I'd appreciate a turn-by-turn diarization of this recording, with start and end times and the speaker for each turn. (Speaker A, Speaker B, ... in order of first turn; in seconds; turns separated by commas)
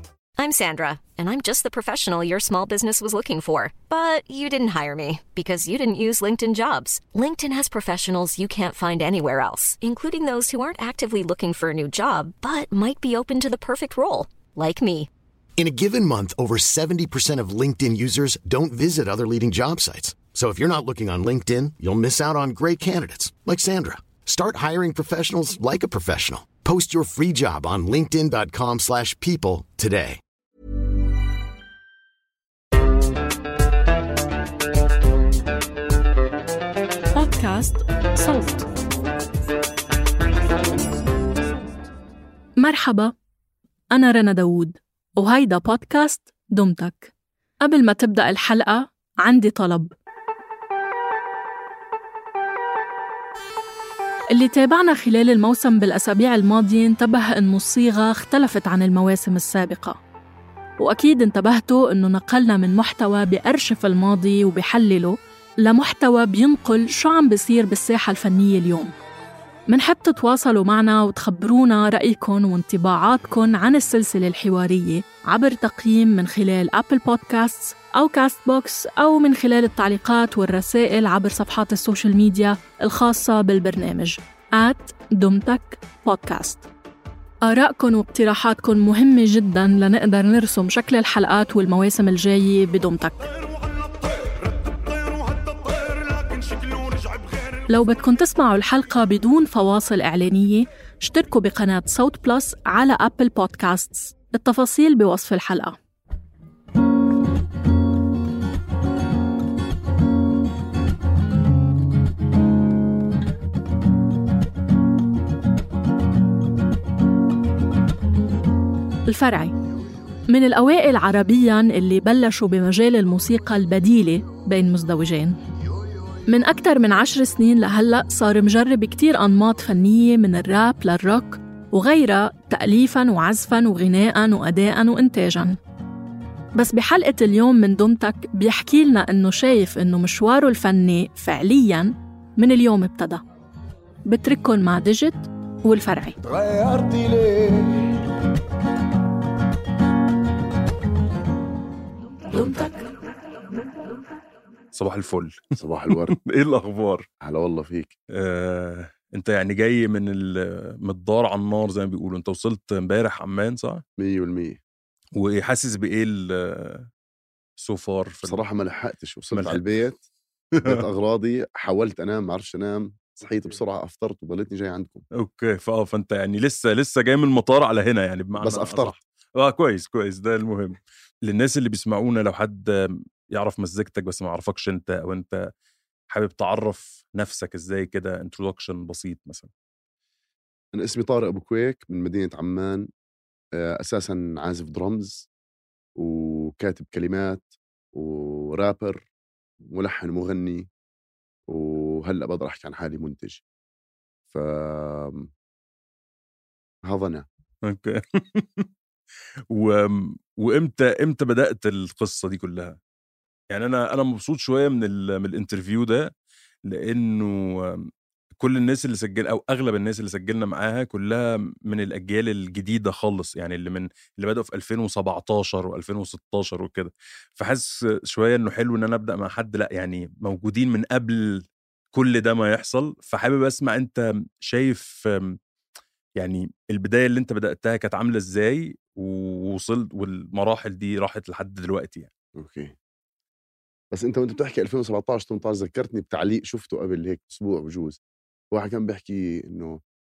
Speaker A: 0.4-15.1, Speaker B: 15.6-30.2, Speaker C: 37.1-38.7, Speaker C: 42.6-43.1, Speaker C: 43.9-49.9, Speaker C: 54.3-60.0, Speaker C: 60.8-68.9, Speaker C: 69.7-86.7, Speaker C: 87.4-93.3, Speaker D: 93.6-94.3, Speaker D: 94.9-97.6, Speaker C: 97.7-105.8, Speaker C: 119.1-119.5, Speaker C: 120.3-125.4, Speaker C: 126.3-135.6, Speaker C: 136.6-143.2, Speaker C: 144.1-146.2, Speaker D: 146.2-148.0, Speaker C: 152.3-152.8, Speaker E: 154.7-157.1, Speaker D: 155.6-156.2, Speaker D: 157.2-157.9, Speaker E: 158.1-163.8, Speaker D: 164.0-164.6, Speaker E: 165.2-166.9, Speaker E: 167.6-168.4, Speaker D: 168.2-170.0, Speaker E: 169.3-169.6, Speaker E: 170.6-170.8, Speaker D: 170.7-175.1, Speaker E: 175.2-185.5, Speaker D: 178.4-179.0, Speaker E: 186.1-189.5, Speaker D: 190.7-192.9, Speaker D: 193.5-195.3, Speaker D: 196.0-199.1, Speaker D: 199.7-200.7, Speaker D: 201.5-203.4, Speaker D: 204.3-205.3, Speaker D: 206.9-207.3, Speaker E: 207.6-208.7, Speaker E: 209.5-212.8, Speaker E: 213.5-216.1, Speaker E: 216.7-235.4, Speaker E: 236.2-242.1, Speaker D: 242.4-242.8, Speaker D: 243.9-248.0, Speaker D: 248.5-249.8